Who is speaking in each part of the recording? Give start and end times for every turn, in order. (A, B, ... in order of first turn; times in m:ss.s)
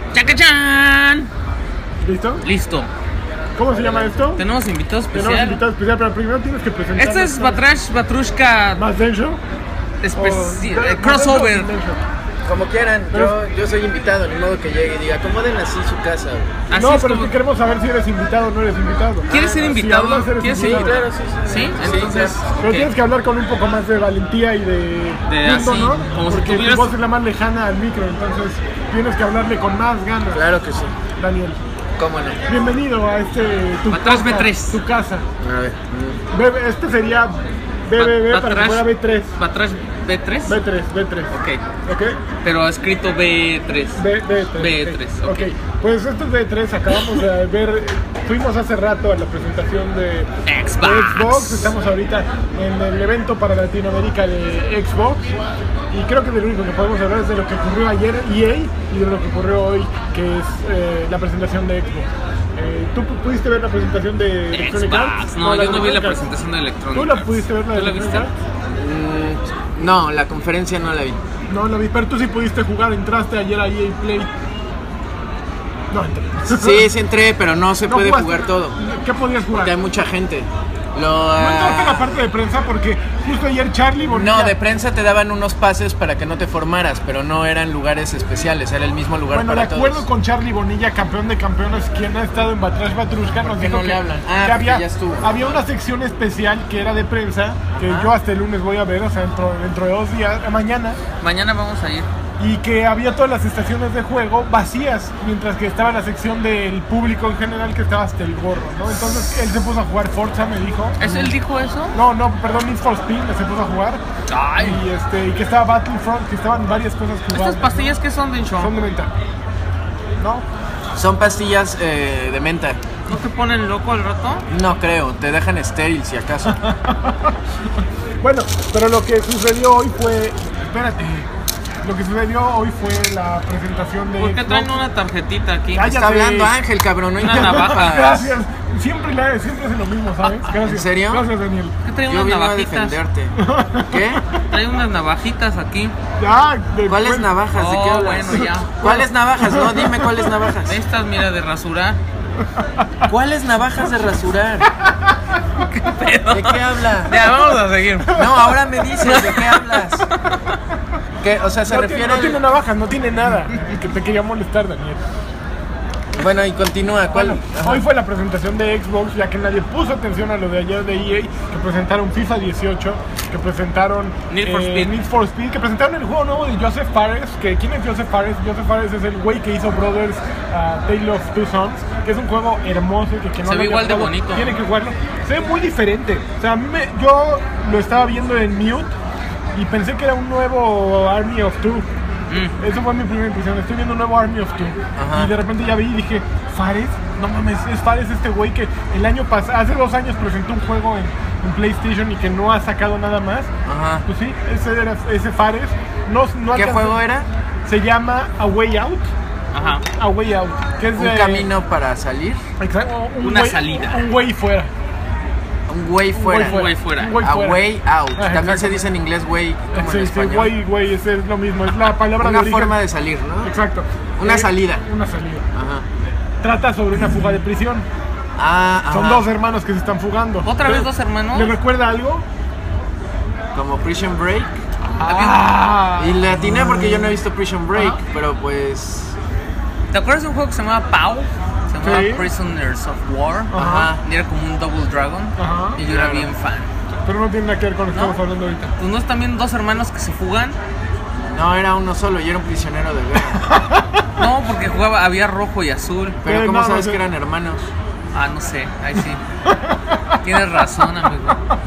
0:00.1-0:01.3 A
0:02.0-0:02.4 B
0:02.4-0:02.9 A
0:03.6-0:04.4 B
0:03.7-0:04.1 C
0:04.4-0:05.6 A
0:05.1-0:07.6 B
0:07.0-0:08.8 A
0:08.8-0:09.4 B
0:10.0-0:11.7 A
0:10.2-0:12.0 B
0:12.4-0:16.5 C
0:16.7-0:17.3 A
0:16.7-0:21.0 B
0:19.3-0:22.9 A
0:20.5-0:22.4 C
0:22.6-0:30.4 B
0:25.3-0:26.9 A
0:30.3-0:30.9 C
0:31.2-0:31.6 B
0:32.0-0:32.4 C
0:32.5-0:35.2 B
0:33.9-0:34.8 A
0:35.4-0:36.2 C
0:36.3-0:37.3 B
0:37.8-0:39.3 B
0:38.0-0:38.9 A
0:39.4-0:40.6 A
0:40.5-0:41.3 B
0:41.3-0:41.6 A
0:41.8-0:42.2 B
0:42.4-0:44.0 A
0:44.0-0:55.3 B
0:44.6-0:45.5 A
0:50.4-0:51.7 A
0:55.9-1:06.2 B
1:04.5-1:08.3 A
1:06.9-1:08.3 B
1:08.8-1:11.2 C
1:11.5-1:14.3 B
1:15.9-1:16.9 B
1:16.4-1:18.8 C
1:17.8-1:19.7 B
1:19.5-1:22.1 C
1:21.4-1:24.5 B
1:24.1-1:30.0 C
1:29.3-1:41.0 B
1:33.4-1:35.6 C
1:37.7-1:38.1 C
1:41.2-1:42.1 A
1:42.4-1:51.3 B
1:51.0-1:52.0 A
1:51.9-1:54.0 B
1:54.3-1:54.8 A
1:54.6-1:57.9 B
1:57.3-1:58.7 A
1:58.6-1:59.1 B
2:00.2-2:00.4 B
2:00.9-2:02.8 C
2:03.1-2:04.4 A
2:04.5-2:06.6 C
2:06.6-2:07.3 B
2:08.2-2:11.3 B
2:11.8-2:14.7 B
2:14.2-2:15.9 A
2:15.7-2:16.5 B
2:15.8-2:18.3 C
2:17.2-2:18.2 A
2:17.2-2:21.7 B
2:20.2-2:21.2 C
2:21.8-2:23.0 A
2:22.1-2:23.4 C
2:23.4-2:24.0 B
2:23.9-2:24.2 C
2:24.5-2:25.9 A
2:26.2-2:27.3 B
2:26.9-2:30.8 C
2:27.5-2:29.1 A
2:30.6-2:32.0 A
2:33.1-2:34.7 C
2:35.7-2:38.3 A
2:36.3-2:37.1 C
2:38.1-2:40.0 C
2:39.0-2:40.3 A
2:41.2-2:42.4 C
2:41.7-2:45.0 B
2:46.1-2:47.8 C
2:47.1-3:08.9 B
2:54.3-2:54.9 A
3:03.5-3:04.5 A
3:09.5-3:11.8 B
3:12.6-3:23.5 B
3:15.0-3:15.3 C
3:23.6-3:24.0 C
3:24.0-3:27.0 B
3:26.5-3:27.3 C
3:27.6-3:29.1 B
3:29.5-3:29.8 A
3:29.8-3:31.5 B
3:31.0-3:32.4 C
3:32.6-3:34.7 B
3:33.2-3:34.0 A
3:35.7-3:40.5 C
3:36.1-3:37.6 B
3:36.4-3:37.2 A
3:38.1-3:38.8 B
3:39.7-3:42.8 B
3:42.1-3:43.5 C
3:43.4-3:45.4 B
3:44.2-3:44.8 C
3:45.5-3:45.8 C
3:46.4-3:47.9 B
3:48.4-3:49.3 C
3:48.9-3:52.2 B
3:50.4-3:51.5 A
3:53.5-3:54.6 C
3:55.0-3:57.2 B
3:55.0-3:55.4 A
3:56.0-3:59.2 C
3:57.7-3:58.0 B
3:59.9-4:06.7 A
4:01.8-4:02.3 B
4:03.5-4:03.9 B
4:03.5-4:04.0 C
4:05.4-4:05.8 B
4:05.8-4:06.3 C
4:07.0-4:08.7 B
4:07.9-4:08.2 A
4:08.8-4:10.6 A
4:11.3-4:13.4 C
4:13.4-4:13.9 B
4:14.2-4:16.2 A
4:16.2-4:17.7 C
4:16.2-4:17.0 B
4:18.1-4:19.2 A
4:19.6-4:20.1 B
4:20.2-4:21.4 A